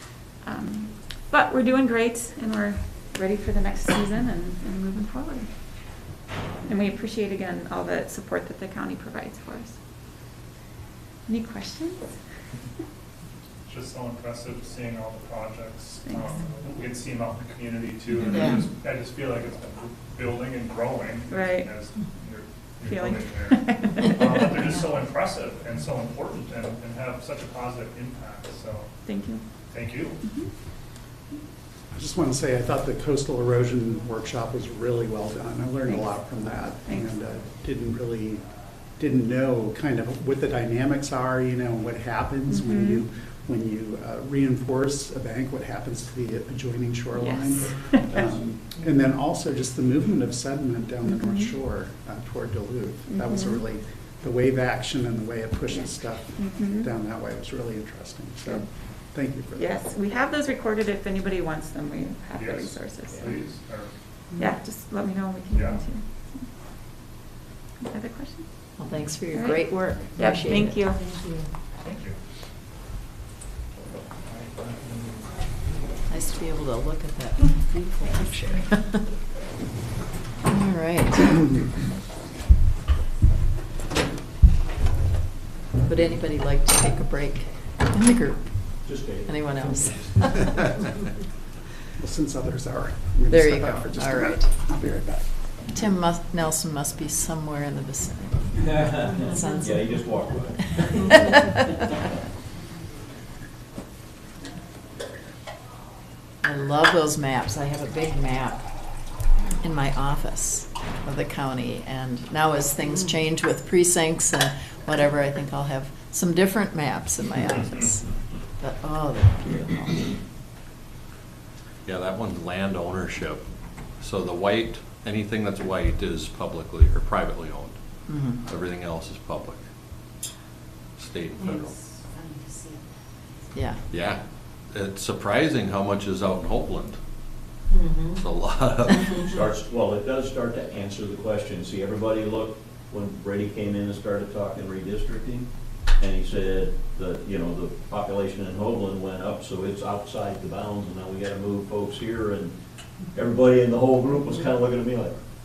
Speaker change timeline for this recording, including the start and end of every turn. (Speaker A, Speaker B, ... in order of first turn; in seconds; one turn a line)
Speaker A: 0.4-5.5
Speaker A: 6.6-9.8
Speaker A: 11.3-12.2
Speaker B: 13.7-28.9
Speaker C: 18.3-18.6
Speaker A: 21.3-21.7
Speaker A: 22.9-24.6
Speaker A: 29.0-29.4
Speaker B: 29.7-30.3
Speaker A: 30.2-30.5
Speaker D: 31.9-59.7
Speaker A: 35.9-37.1
Speaker A: 42.5-43.0
Speaker A: 47.1-48.0
Speaker A: 51.0-51.5
Speaker A: 53.1-53.6
Speaker A: 55.7-56.9
Speaker A: 59.5-63.4
Speaker B: 62.3-63.9
Speaker A: 64.4-66.5
Speaker B: 65.5-65.8
Speaker A: 67.8-68.5
Speaker C: 68.8-70.9
Speaker A: 69.3-71.0
Speaker B: 71.8-72.2
Speaker B: 74.2-75.5
Speaker C: 76.1-79.0
Speaker C: 80.5-81.5
Speaker C: 85.8-88.7
Speaker E: 88.8-90.8
Speaker C: 89.2-90.7
Speaker D: 92.0-95.4
Speaker C: 93.3-94.5
Speaker C: 95.7-99.9
Speaker E: 98.6-101.2
Speaker C: 100.6-101.6
Speaker C: 106.4-108.6
Speaker C: 109.6-118.0
Speaker C: 118.6-120.1
Speaker F: 121.8-123.4
Speaker F: 124.0-127.8
Speaker C: 128.1-128.4
Speaker F: 128.4-129.6
Speaker F: 131.0-131.8
Speaker C: 133.5-133.8
Speaker F: 133.9-137.0
Speaker F: 138.1-139.2
Speaker E: 139.2-152.5
Speaker E: 153.1-155.2